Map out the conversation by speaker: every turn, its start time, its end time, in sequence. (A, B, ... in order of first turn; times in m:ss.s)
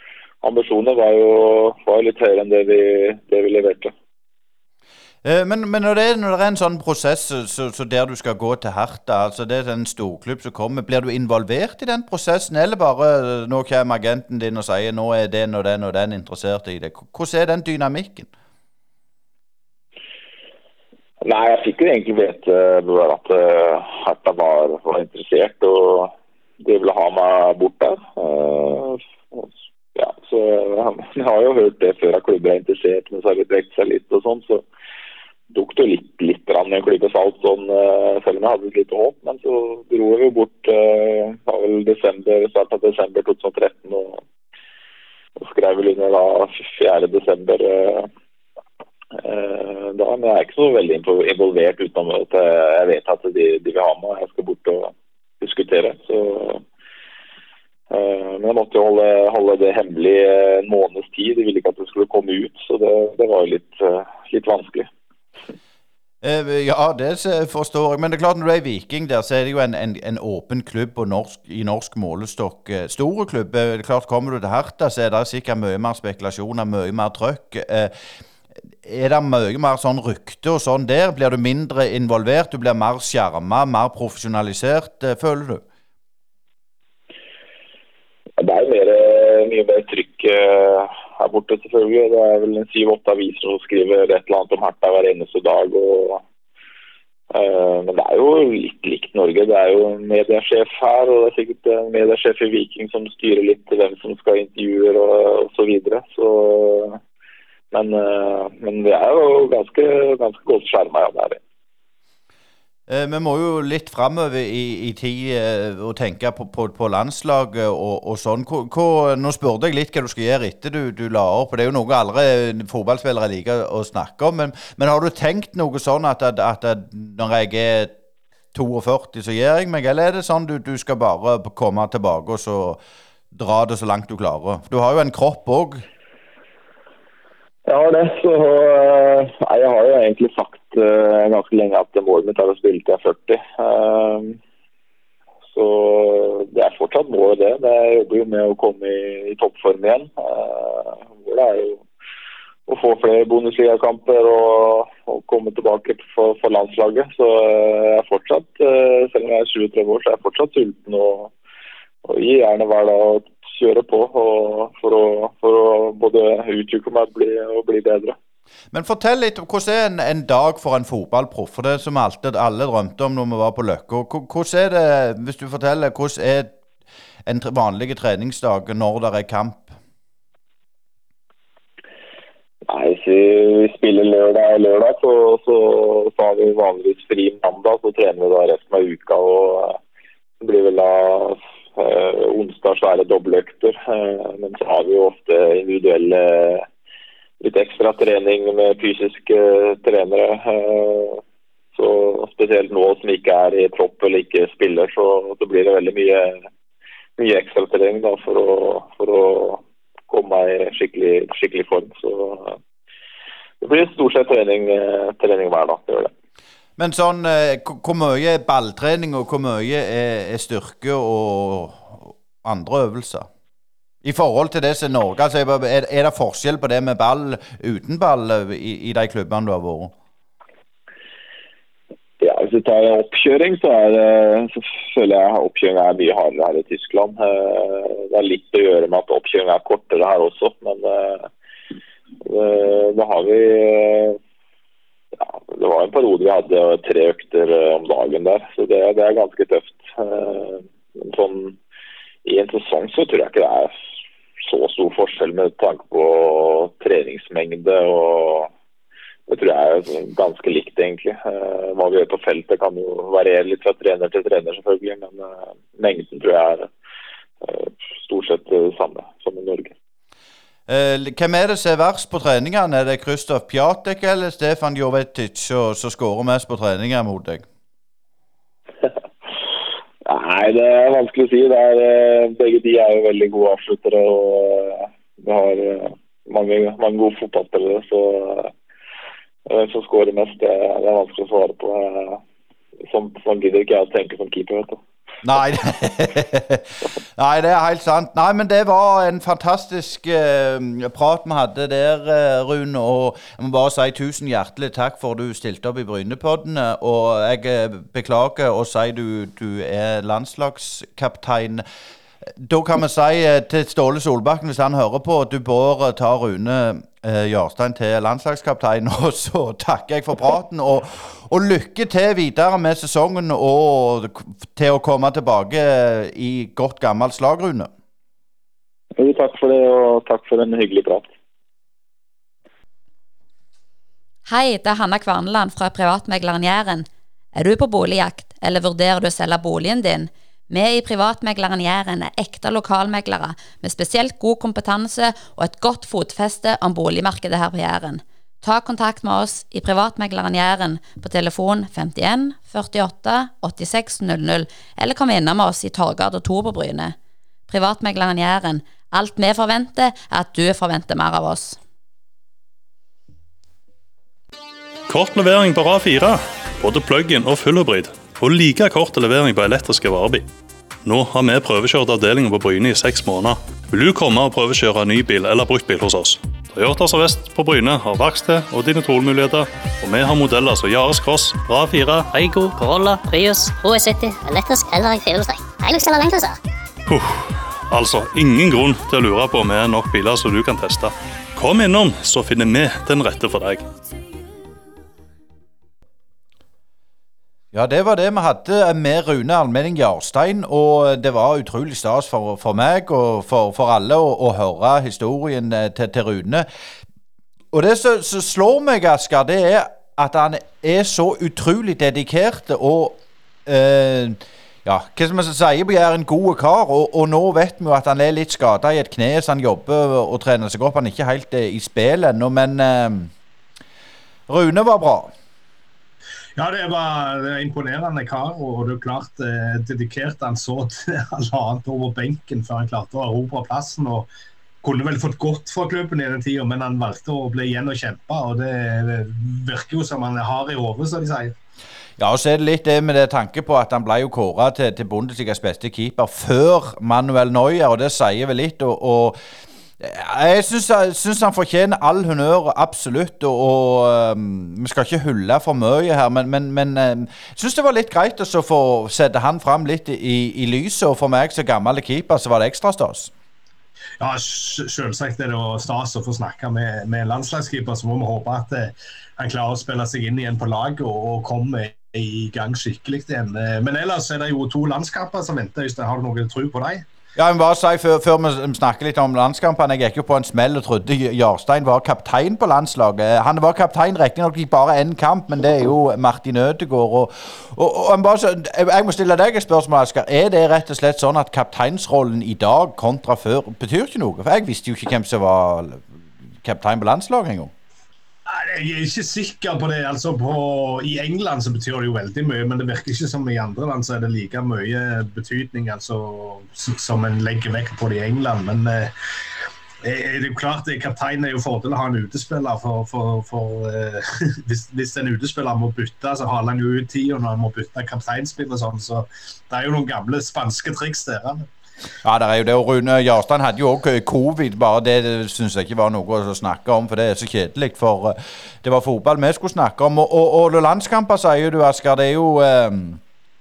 0:00.4-0:03.9 A
0:05.2-0:18.3 B
0:21.2-0:26.1 A
0:26.6-0:34.6 A
0:35.5-0:44.2 A
0:45.4-0:48.1 A
0:49.2-0:56.6 A
0:57.9-1:04.9 A
1:06.2-1:17.9 B
1:18.8-1:25.6 B
1:28.4-1:36.2 A
1:37.3-1:47.0 A
1:47.7-1:51.4 A
1:52.9-2:07.9 B
2:08.5-2:12.8 B
2:13.3-2:15.8 B
2:17.7-2:24.4 A
2:25.5-2:31.8 A
2:32.7-2:41.3 A
2:42.0-2:48.2 A
2:48.7-2:56.6 B
2:57.2-2:59.8 B
3:02.7-3:09.8 A
3:10.4-3:16.7 A
3:17.4-3:21.2 A
3:21.8-3:26.5 A
3:27.2-3:32.6 A
3:33.6-3:36.1 A
3:36.8-3:43.3 B
3:44.0-3:49.9 B
3:52.2-4:01.3 A
4:02.2-4:04.2 A
4:05.2-4:11.6 A
4:12.2-4:13.7 A
4:14.4-4:18.5 A
4:19.3-4:26.7 A
4:27.4-4:29.8 A
4:30.7-4:37.4 B
4:40.1-4:48.5 A
4:49.5-4:52.2 A
4:52.9-4:54.8 A
4:55.2-5:11.6 B
5:12.4-5:27.7 B
5:29.0-5:31.1 A
5:34.3-5:57.0 C
5:57.5-6:01.6 C
6:04.9-6:10.3 D
6:10.8-6:22.3 D
6:22.2-6:26.4 E
6:26.9-6:33.7 D
6:37.5-6:46.5 B
6:47.5-7:03.1 B
7:04.3-7:05.1 B
7:06.4-7:14.1 F
7:14.6-7:21.4 F
7:22.0-7:29.2 B
7:29.8-7:43.1 B
7:44.0-7:56.8 F
7:57.2-8:17.5 B
8:18.3-8:28.9 F
8:29.8-8:41.5 F
8:42.0-8:53.0 B